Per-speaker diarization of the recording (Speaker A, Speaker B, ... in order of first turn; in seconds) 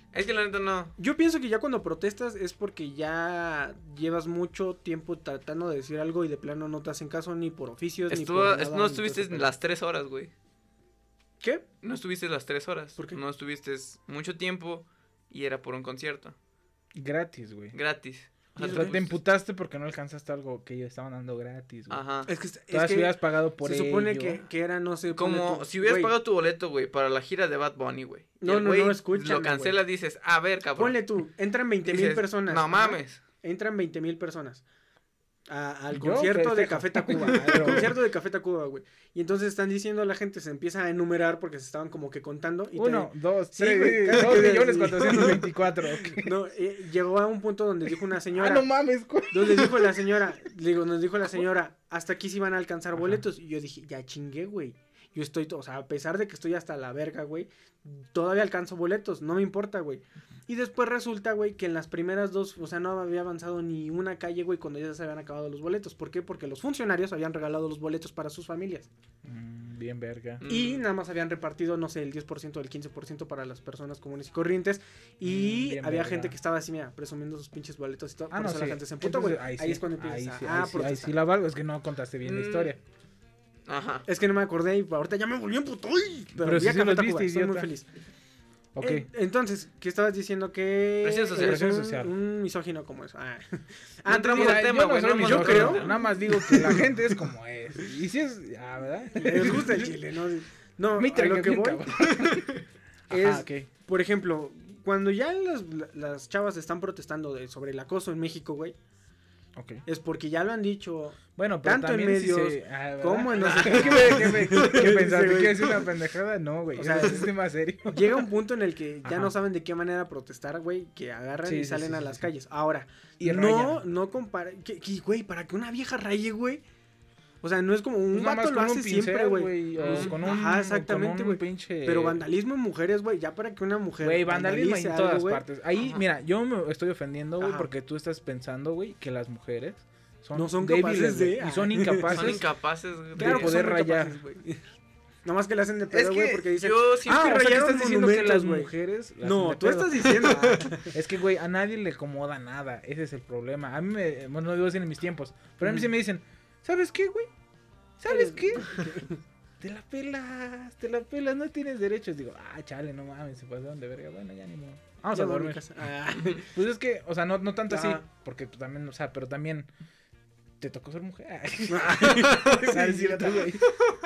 Speaker A: 0.1-0.9, 8.1-10.3, 11.8-16.3, 17.7-19.1, 21.9-22.3, 25.1-31.0, 31.9-33.2, 70.4-70.8, 82.2-82.7, 83.7-84.0, 91.0-91.6, 94.1-96.0, 113.4-114.8, 129.8-130.2, 142.1-143.5, 145.9-147.3
Speaker B: 1.0-9.5, 18.6-19.1, 22.2-26.1, 28.4-29.8, 30.8-34.6, 35.5-45.5, 46.1-48.7, 49.3-68.9, 70.5-81.1, 84.0-87.9, 88.8-96.9, 99.1-101.9, 103.1-108.8, 109.8-115.8, 116.8-117.3, 117.8-126.6, 127.4-135.4, 137.4-137.7, 140.3-142.4, 143.2-144.6, 145.2-148.7, 149.2-150.9, 158.1-159.2, 165.1-166.5, 167.7-168.0, 171.7-173.5
Speaker C: 16.9-17.8, 18.6-22.0, 22.7-24.4, 35.9-37.9, 42.7-46.3, 48.3-50.0, 52.9-53.2, 69.2-70.4, 75.2-76.3, 78.3-82.8, 86.4-87.7, 88.7-89.1, 91.4-92.1, 94.3-99.9, 100.9-102.5, 103.1-103.7, 109.5-109.8, 111.3-118.2, 119.0-119.3, 121.4-122.3, 123.2-123.8, 128.1-132.2, 134.0-142.4, 143.2-144.2, 147.0-157.3, 158.0-158.9, 159.6-165.6, 166.4-169.7, 170.6-173.7